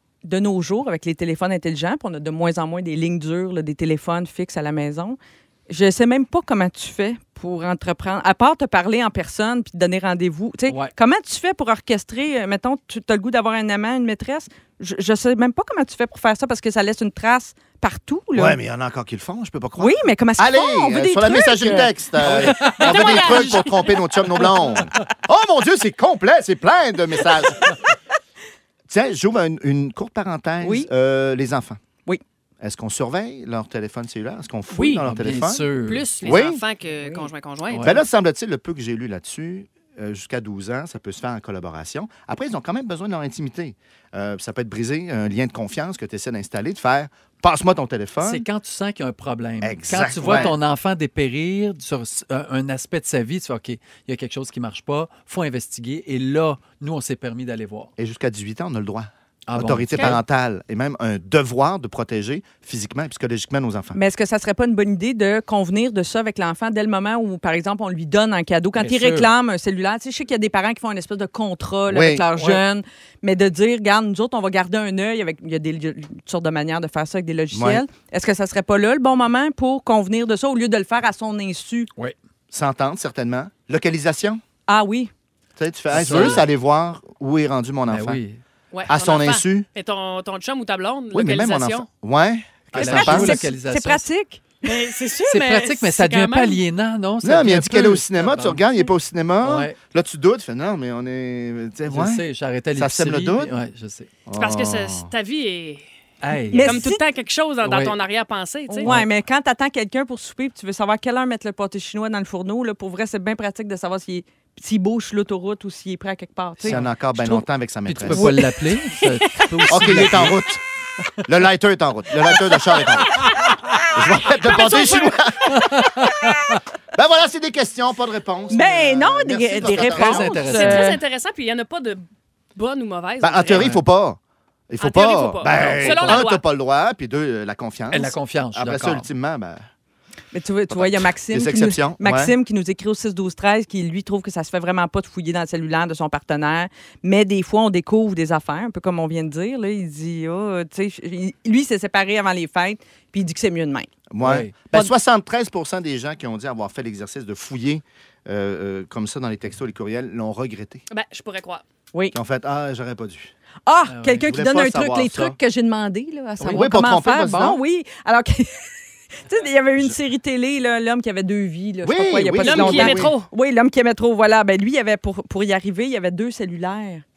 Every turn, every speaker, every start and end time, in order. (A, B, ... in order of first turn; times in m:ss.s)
0:00.2-0:05.2 A
0:05.7-0:18.6 A
0:18.3-0:27.8 B
0:19.8-0:21.9 A
0:22.2-0:23.6 C
0:22.6-0:23.9 D
0:28.9-0:31.8 B
0:30.6-0:30.9 A
0:32.6-0:35.7 B
0:34.9-0:36.1 C
0:35.8-0:38.0 D
0:36.2-0:36.6 B
0:37.7-0:38.0 C
0:37.8-0:48.4 B
0:48.2-0:57.9 C
0:49.6-0:50.6 B
0:58.0-1:04.0 B
0:59.5-1:00.2 C
1:03.9-1:21.9 A
1:08.8-1:09.3 C
1:11.9-1:12.2 B
1:12.4-1:12.6 C
1:17.5-1:17.8 B
1:22.5-1:24.4 B
1:24.7-1:25.1 A
1:25.6-1:28.2 B
1:25.9-1:26.4 C
1:27.9-1:28.4 C
1:28.7-1:31.8 D
1:28.9-1:29.7 B
1:31.1-1:33.4 B
1:32.7-1:34.0 C
1:32.7-1:34.4 A
1:34.6-1:36.6 D
1:35.3-1:38.6 C
1:37.2-1:43.5 B
1:39.4-1:39.7 C
1:41.9-1:44.1 C
1:44.2-1:45.1 B
1:44.3-1:45.8 D
1:46.2-1:46.8 C
1:46.5-1:47.0 A
1:46.5-1:48.9 D
1:47.6-1:48.0 C
1:48.7-1:57.4 A
1:56.6-1:58.4 B
1:57.8-2:00.4 C
1:59.7-2:00.6 B
2:01.2-2:03.3 B
2:03.9-2:06.2 B
2:05.5-2:06.6 C
2:06.9-2:10.5 B
2:08.5-2:11.0 A
2:09.7-2:10.9 C
2:10.4-2:12.0 D
2:12.6-2:13.7 D
2:13.2-2:14.2 B
2:13.5-2:13.8 C
2:14.7-2:19.6 B
2:14.8-2:16.4 D
2:15.5-2:16.2 C
2:17.9-2:19.0 C
2:20.3-2:33.9 A
2:20.7-2:22.3 B
2:34.1-2:40.8 B
2:34.2-2:34.5 C
2:40.9-2:41.6 D
2:42.1-2:43.3 B
2:43.6-2:48.7 A
2:43.9-2:44.2 C
2:44.2-2:45.4 B
2:46.4-2:47.6 B
2:49.2-2:57.0 A
2:51.8-2:53.2 B
2:52.4-2:53.3 D